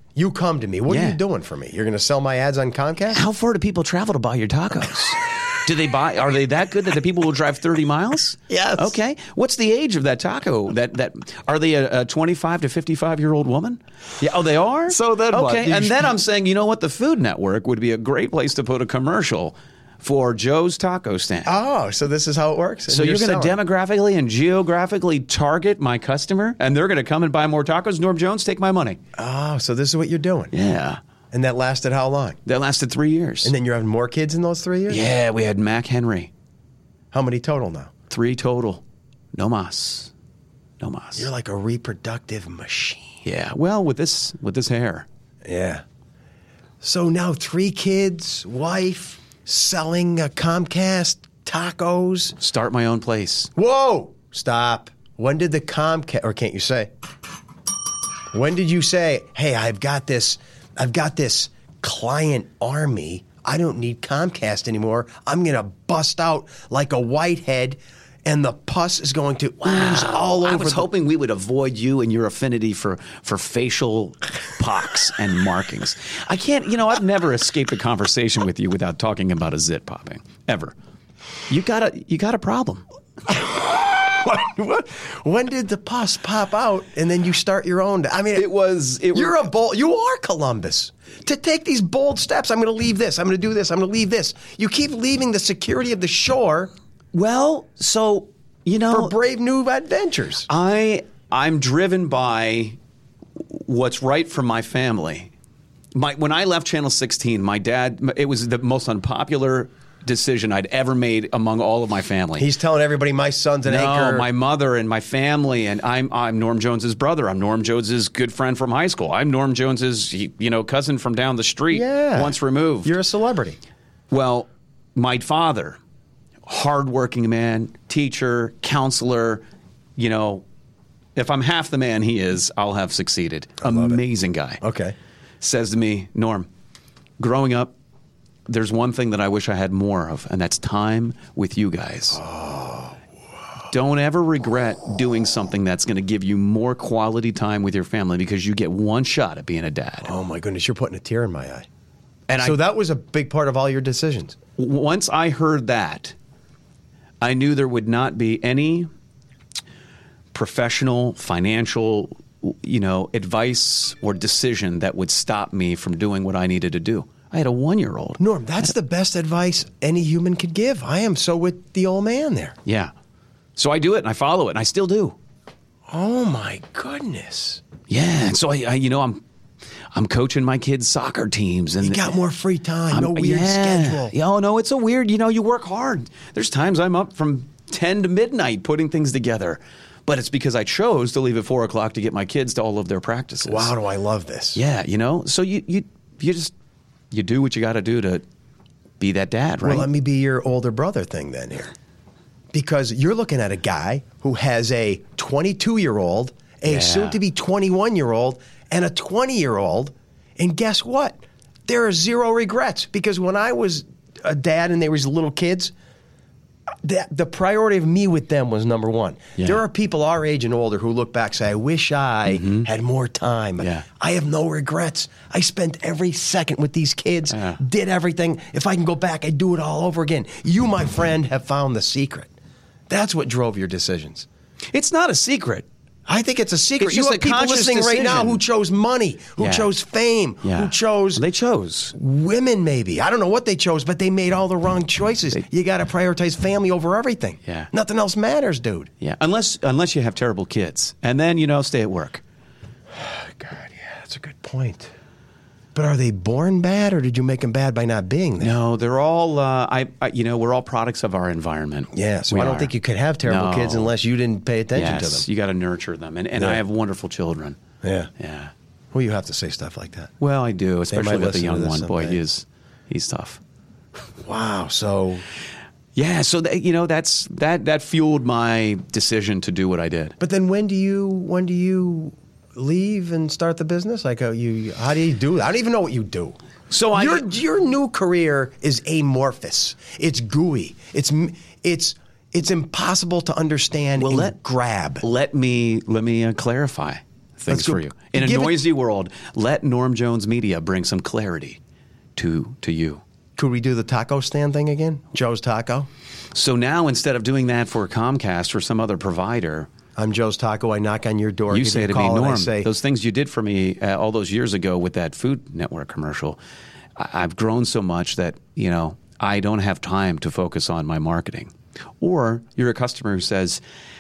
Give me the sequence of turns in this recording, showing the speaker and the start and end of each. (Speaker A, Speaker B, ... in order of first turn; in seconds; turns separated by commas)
Speaker A: 0.1-3.2, Speaker B: 0.9-1.2, Speaker B: 3.1-21.5, Speaker A: 8.5-9.0, Speaker A: 14.9-16.1, Speaker A: 21.4-23.6, Speaker B: 22.9-29.0, Speaker A: 29.1-30.5, Speaker B: 30.5-31.0, Speaker A: 31.3-32.4, Speaker B: 32.5-33.5, Speaker A: 33.4-35.0, Speaker B: 34.9-36.3, Speaker A: 37.1-37.9, Speaker B: 38.1-38.8, Speaker B: 39.3-40.1, Speaker B: 40.8-41.3, Speaker A: 41.1-43.2, Speaker B: 43.2-45.0, Speaker A: 45.4-45.8, Speaker A: 46.8-52.4, Speaker B: 52.4-53.5, Speaker A: 53.5-56.9, Speaker A: 58.3-70.9, Speaker B: 69.6-80.7, Speaker B: 81.5-82.8, Speaker A: 83.3-88.5, Speaker B: 88.3-89.4, Speaker A: 89.1-96.7, Speaker B: 97.1-99.1, Speaker A: 98.9-100.5, Speaker B: 100.5-102.8, Speaker B: 103.4-105.3, Speaker B: 105.9-112.5, Speaker A: 112.4-114.3, Speaker B: 113.7-122.9, Speaker A: 121.7-123.6, Speaker B: 124.1-125.8, Speaker B: 126.5-129.4, Speaker B: 130.0-130.4, Speaker B: 131.2-134.6, Speaker A: 133.6-134.0, Speaker A: 134.6-134.9, Speaker B: 135.4-136.5, Speaker B: 137.2-137.7, Speaker B: 138.5-142.2, Speaker A: 142.1-143.0, Speaker B: 143.7-150.1, Speaker A: 150.0-151.7, Speaker B: 152.3-152.6, Speaker A: 152.4-154.3, Speaker B: 154.6-156.1, Speaker B: 157.2-158.9, Speaker B: 160.3-168.7, Speaker A: 168.2-172.6, Speaker B: 172.6-172.9, Speaker B: 173.6-175.2, Speaker A: 175.9-177.6, Speaker B: 177.9-179.2, Speaker B: 179.9-182.1, Speaker A: 181.8-184.1, Speaker B: 182.9-193.7, Speaker A: 193.4-194.6, Speaker B: 194.5-196.5, Speaker B: 197.1-198.2, Speaker B: 199.0-199.9, Speaker A: 199.6-201.7, Speaker A: 202.5-215.7, Speaker B: 206.6-207.2, Speaker A: 216.8-232.3, Speaker B: 222.3-222.7, Speaker B: 223.6-223.8, Speaker B: 227.3-227.6, Speaker A: 232.9-234.3, Speaker B: 234.7-235.7, Speaker A: 236.1-241.2, Speaker B: 236.8-238.4, Speaker B: 239.4-239.7, Speaker B: 240.4-241.9, Speaker A: 241.9-248.9, Speaker B: 249.0-252.2, Speaker A: 252.9-254.9, Speaker A: 255.7-258.5, Speaker B: 258.4-262.7, Speaker A: 261.9-265.3, Speaker B: 263.2-263.9, Speaker B: 264.7-267.6, Speaker A: 267.8-268.1, Speaker B: 268.2-268.5, Speaker A: 268.9-270.1, Speaker B: 270.2-273.4, Speaker A: 270.9-272.2, Speaker A: 274.2-275.2, Speaker B: 275.9-280.1, Speaker A: 280.2-286.4, Speaker B: 286.7-287.2, Speaker A: 286.9-295.0, Speaker B: 294.0-294.3, Speaker B: 295.0-301.6, Speaker A: 297.5-298.6, Speaker B: 302.1-303.0, Speaker A: 303.4-305.9, Speaker B: 306.3-309.7, Speaker A: 309.9-312.7, Speaker B: 311.5-316.4, Speaker B: 316.9-323.6